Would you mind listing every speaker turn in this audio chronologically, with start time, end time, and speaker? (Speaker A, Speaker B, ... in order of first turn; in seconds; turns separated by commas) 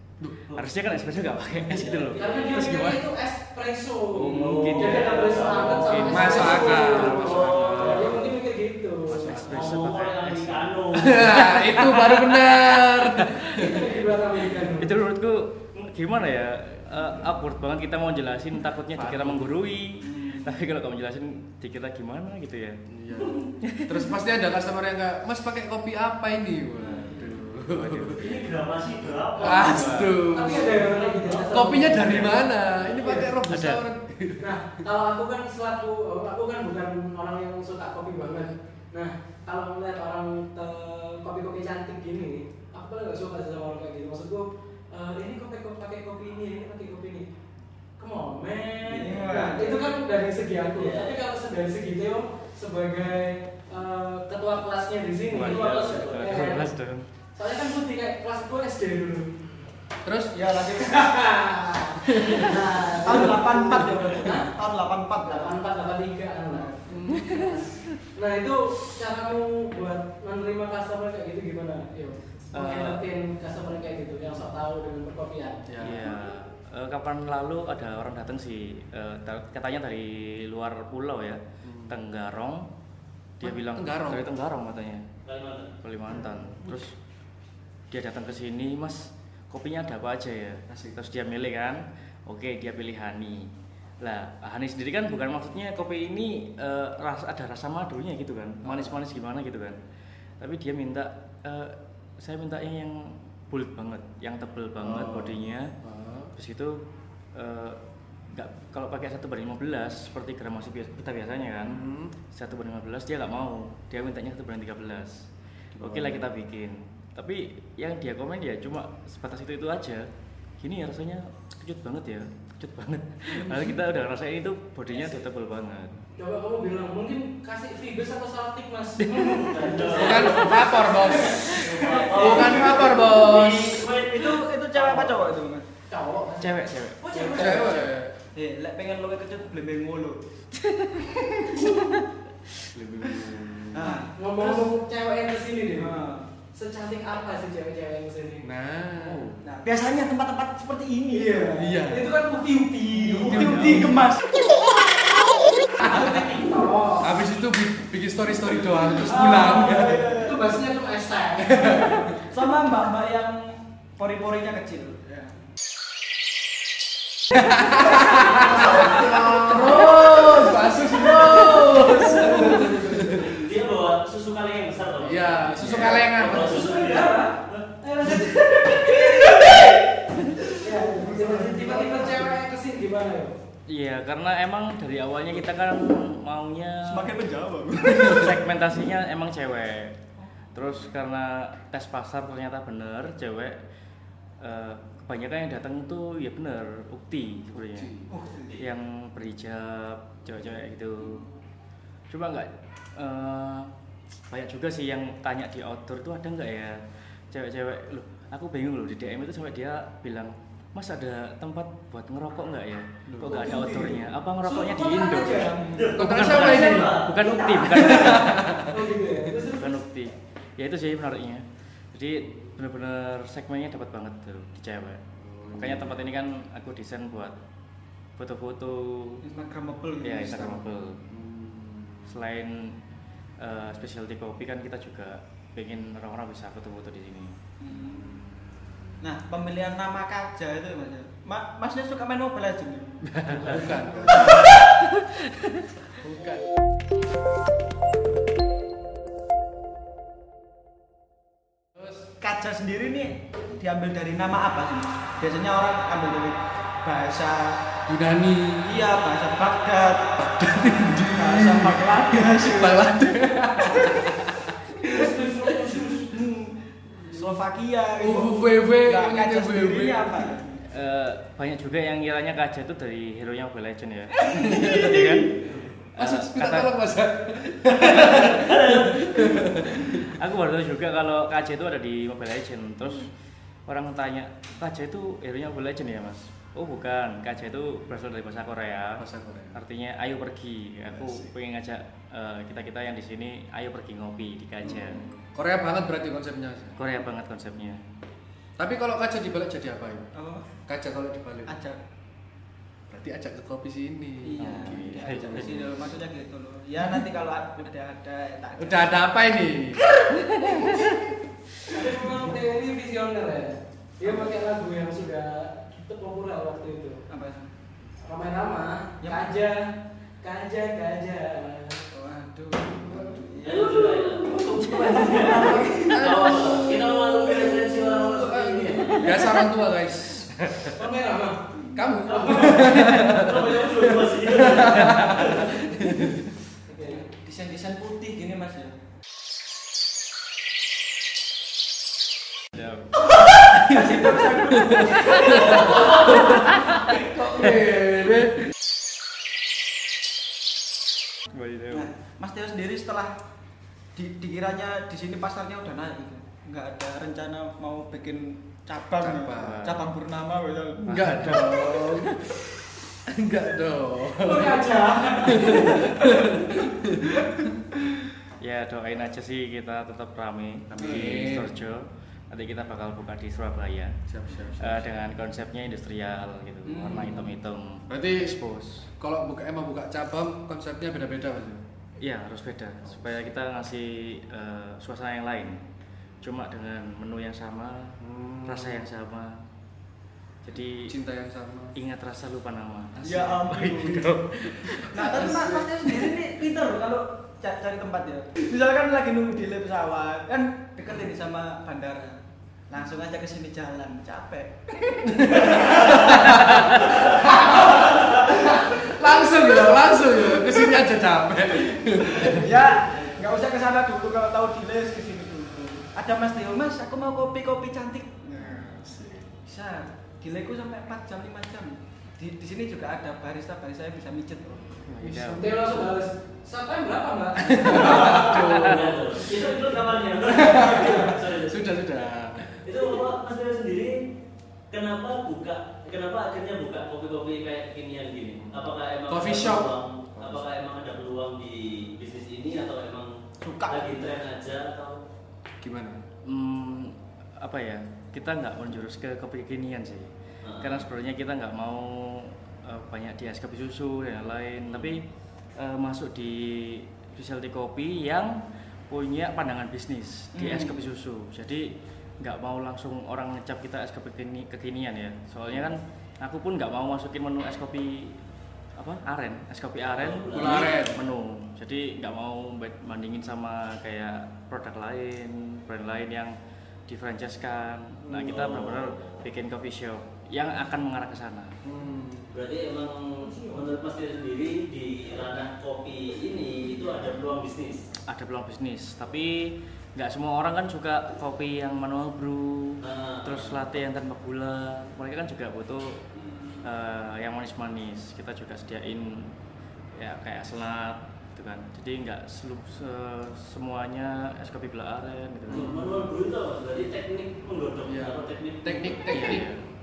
Speaker A: 0.5-2.9, Speaker B: 1.6-2.6, Speaker C: 2.1-9.4, Speaker D: 2.5-3.0, Speaker A: 4.1-7.8, Speaker B: 4.2-6.0, Speaker D: 6.0-8.3, Speaker B: 6.9-8.2, Speaker D: 9.1-9.9, Speaker A: 9.2-13.8, Speaker B: 9.4-11.6, Speaker D: 10.9-13.9, Speaker C: 13.6-14.9, Speaker A: 14.8-22.8, Speaker D: 18.9-19.6, Speaker E: 20.0-20.6, Speaker D: 22.9-28.2, Speaker A: 23.6-24.1, Speaker A: 27.7-28.5, Speaker B: 28.1-30.0, Speaker A: 29.3-30.2, Speaker D: 29.4-30.9, Speaker C: 30.2-33.3, Speaker B: 30.9-31.8, Speaker D: 31.5-34.6, Speaker A: 33.5-33.8, Speaker C: 34.4-47.3, Speaker C: 48.0-56.7, Speaker E: 48.9-49.8, Speaker B: 48.9-49.5, Speaker B: 50.8-51.2, Speaker A: 55.3-57.1, Speaker B: 55.3-56.5, Speaker C: 57.3-59.3, Speaker D: 60.0-60.3, Speaker E: 60.3-61.5, Speaker C: 60.8-64.5, Speaker E: 62.1-65.6, Speaker C: 65.2-76.0, Speaker D: 66.9-67.5, Speaker A: 72.5-73.0, Speaker D: 75.7-76.1, Speaker A: 75.8-82.7, Speaker D: 81.6-81.9, Speaker A: 83.4-85.1, Speaker D: 83.4-84.3, Speaker B: 85.2-85.7, Speaker A: 85.8-86.9, Speaker A: 87.9-93.5, Speaker D: 90.7-91.0, Speaker A: 94.0-99.8, Speaker D: 98.6-99.0, Speaker A: 100.4-105.7, Speaker D: 104.8-106.3, Speaker A: 106.3-106.8, Speaker A: 107.3-107.8, Speaker A: 108.3-115.3, Speaker D: 111.7-112.1, Speaker D: 115.8-116.3, Speaker A: 115.8-120.1, Speaker A: 120.6-125.9, Speaker B: 124.9-125.2, Speaker C: 126.2-132.6, Speaker B: 129.3-135.1, Speaker D: 129.9-131.6, Speaker D: 132.1-133.9, Speaker E: 133.9-135.7, Speaker C: 135.9-137.7, Speaker A: 136.4-137.8, Speaker E: 137.0-140.2, Speaker D: 137.3-138.2, Speaker A: 140.6-142.0, Speaker E: 141.0-142.0, Speaker D: 142.7-144.0, Speaker E: 143.7-144.7, Speaker C: 143.8-148.5, Speaker E: 145.8-146.3, Speaker D: 148.4-149.4, Speaker A: 149.0-149.3, Speaker E: 149.4-151.7, Speaker C: 151.1-153.6, Speaker D: 151.6-152.3, Speaker D: 152.9-154.1, Speaker E: 153.1-154.3, Speaker C: 155.8-157.1, Speaker D: 157.0-160.2, Speaker E: 158.9-160.5, Speaker C: 159.3-161.9, Speaker D: 161.4-162.1, Speaker E: 161.7-165.3, Speaker D: 167.3-173.3, Speaker E: 167.9-170.2, Speaker C: 171.9-173.2, Speaker B: 173.1-177.6, Speaker D: 175.0-176.7, Speaker C: 176.3-179.8, Speaker E: 179.1-179.8, Speaker E: 180.4-182.3, Speaker C: 180.4-183.4, Speaker A: 183.7-187.1, Speaker E: 186.8-188.4, Speaker A: 187.9-190.0, Speaker A: 190.5-193.6, Speaker A: 194.4-197.9, Speaker D: 197.6-198.1, Speaker E: 198.1-198.6, Speaker A: 198.6-201.2, Speaker A: 202.1-203.7, Speaker A: 204.3-218.5, Speaker D: 213.1-213.4, Speaker C: 213.3-215.7, Speaker E: 215.5-215.9, Speaker B: 215.6-218.2, Speaker D: 215.9-217.0, Speaker D: 217.7-218.9, Speaker C: 218.6-219.7, Speaker A: 219.4-225.0, Speaker D: 225.2-226.0, Speaker A: 225.6-227.3, Speaker A: 228.2-229.2, Speaker E: 229.2-230.6, Speaker A: 230.0-231.0, Speaker D: 231.1-232.1, Speaker A: 232.1-232.8, Speaker A: 233.4-237.3, Speaker E: 237.6-238.2, Speaker E: 239.0-244.6, Speaker D: 243.1-244.5, Speaker A: 243.2-243.6, Speaker A: 244.2-245.6, Speaker D: 246.0-246.4, Speaker E: 252.2-257.6, Speaker D: 257.9-258.8, Speaker E: 258.6-260.3, Speaker D: 260.2-265.1, Speaker E: 261.0-262.9, Speaker C: 264.8-266.1, Speaker E: 266.1-270.6, Speaker D: 268.0-270.3, Speaker A: 270.7-275.4, Speaker D: 274.2-275.3, Speaker A: 275.9-276.7, Speaker D: 276.0-280.2, Speaker B: 278.3-279.0, Speaker A: 279.4-283.1, Speaker A: 283.7-295.0, Speaker D: 289.0-289.6, Speaker D: 290.9-291.3, Speaker E: 294.8-295.0, Speaker D: 295.2-296.8, Speaker A: 296.8-297.8, Speaker D: 298.6-300.1, Speaker E: 300.1-300.5, Speaker D: 300.7-301.5, Speaker E: 301.5-301.8, Speaker D: 302.9-305.7, Speaker E: 304.2-309.1, Speaker A: 304.4-305.6, Speaker D: 308.6-310.1, Speaker C: 311.7-317.0, Speaker E: 317.1-317.5, Speaker C: 318.0-319.7, Speaker E: 319.0-319.3, Speaker C: 320.2-321.8, Speaker E: 321.9-326.1, Speaker B: 323.4-329.1, Speaker D: 325.2-330.4, Speaker A: 328.9-329.4, Speaker A: 330.4-330.7, Speaker C: 330.7-331.4, Speaker D: 331.8-336.3, Speaker C: 332.0-332.7, Speaker B: 332.1-335.5, Speaker C: 336.7-337.0, Speaker E: 336.8-338.8, Speaker A: 342.5-342.9, Speaker E: 343.1-347.4, Speaker D: 343.6-348.5, Speaker A: 344.9-346.8, Speaker A: 351.3-351.9, Speaker E: 351.7-353.1, Speaker E: 353.9-361.0, Speaker D: 359.0-359.7, Speaker A: 359.4-359.9, Speaker D: 360.8-362.2, Speaker A: 360.9-362.2, Speaker D: 363.1-367.7, Speaker C: 364.2-366.1, Speaker A: 368.4-373.9, Speaker D: 370.7-371.5, Speaker D: 374.1-374.9, Speaker A: 374.6-378.9, Speaker E: 376.6-377.2, Speaker D: 376.9-377.3, Speaker D: 377.9-378.4, Speaker D: 379.0-381.6, Speaker A: 382.0-385.6, Speaker A: 386.2-389.4, Speaker D: 388.0-388.9, Speaker A: 390.4-390.9, Speaker D: 390.9-391.7, Speaker A: 391.7-395.5, Speaker E: 393.0-394.1, Speaker E: 394.8-408.9, Speaker D: 395.3-395.6, Speaker D: 405.1-412.6, Speaker E: 412.0-418.7, Speaker D: 418.4-419.4, Speaker E: 419.4-424.6, Speaker A: 424.9-425.6, Speaker D: 424.9-425.9, Speaker C: 425.4-428.3, Speaker D: 427.4-429.6, Speaker B: 427.7-431.7, Speaker A: 428.3-428.8, Speaker D: 430.3-432.6, Speaker C: 430.7-431.0, Speaker B: 432.6-434.0, Speaker B: 434.7-443.1, Speaker D: 438.4-440.4, Speaker E: 443.4-444.0, Speaker B: 443.6-445.0, Speaker D: 445.6-446.0, Speaker A: 446.2-450.1, Speaker B: 450.4-450.8, Speaker A: 450.6-455.0, Speaker A: 455.6-468.2, Speaker E: 460.3-460.8, Speaker A: 468.8-476.3, Speaker B: 469.9-470.7, Speaker D: 470.3-471.0, Speaker A: 476.9-481.6, Speaker B: 478.1-479.1, Speaker D: 481.6-482.3, Speaker B: 482.3-487.8, Speaker A: 488.1-496.0, Speaker B: 492.8-493.5, Speaker A: 496.6-499.3, Speaker A: 499.9-505.8, Speaker D: 505.5-506.1, Speaker B: 505.5-509.1, Speaker D: 507.9-509.5, Speaker A: 509.1-509.6